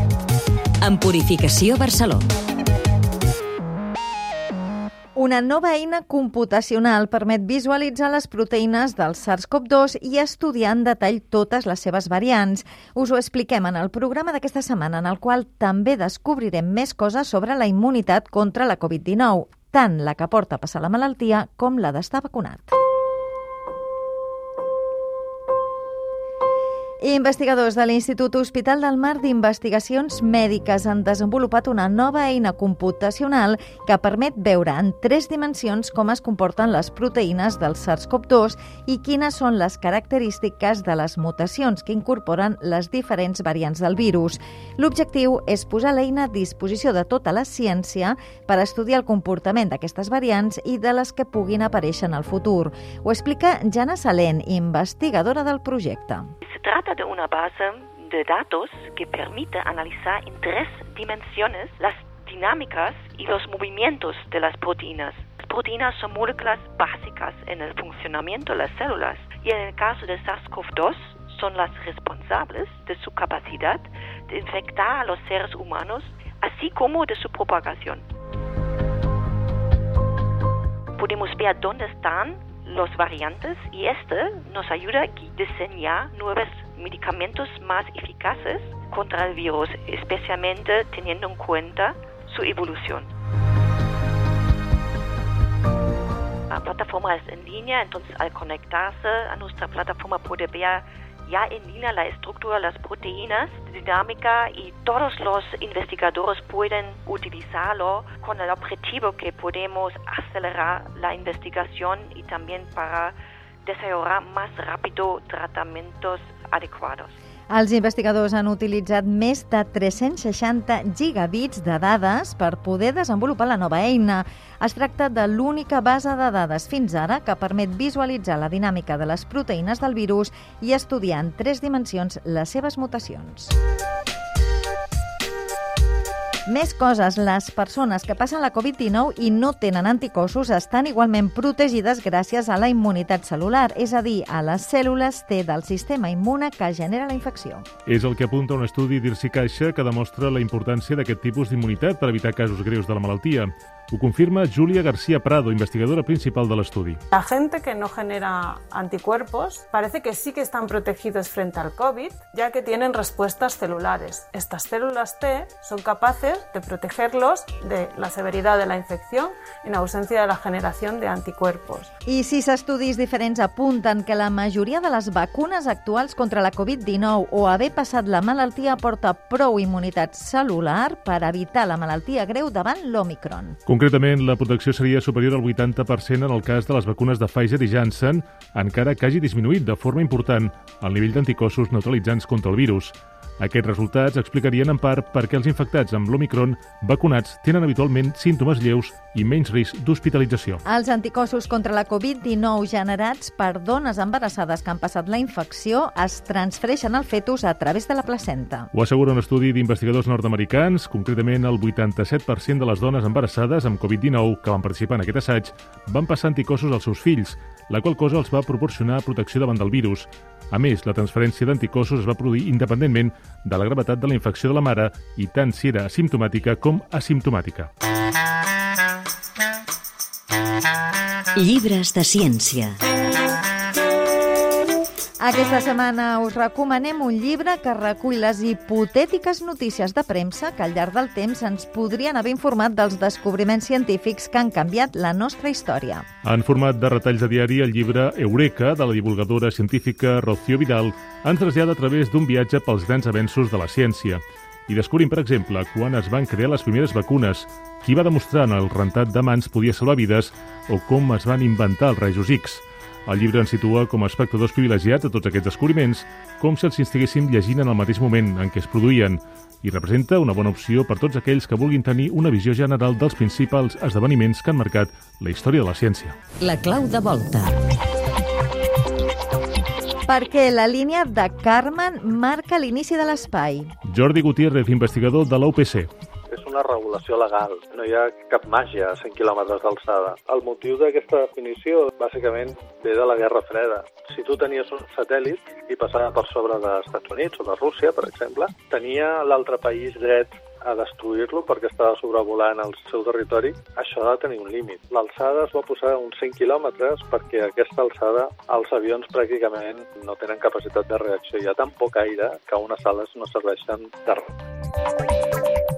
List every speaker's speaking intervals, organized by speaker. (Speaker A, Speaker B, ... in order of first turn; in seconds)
Speaker A: 0.8-2.3, 231.4-232.8, 276.4-277.6
Speaker B: 5.2-22.7, 27.0-56.3, 117.5-133.5, 136.5-147.7, 172.1-183.6, 200.7-208.7, 235.2-246.1, 280.1-283.7
Speaker C: 56.5-78.0, 81.0-93.1, 96.5-117.1
Speaker D: 147.9-157.0, 183.7-200.6, 208.7-227.7, 246.2-276.2, 283.9-285.9
Speaker E: 157.1-171.9
Speaker F: 286.3-314.3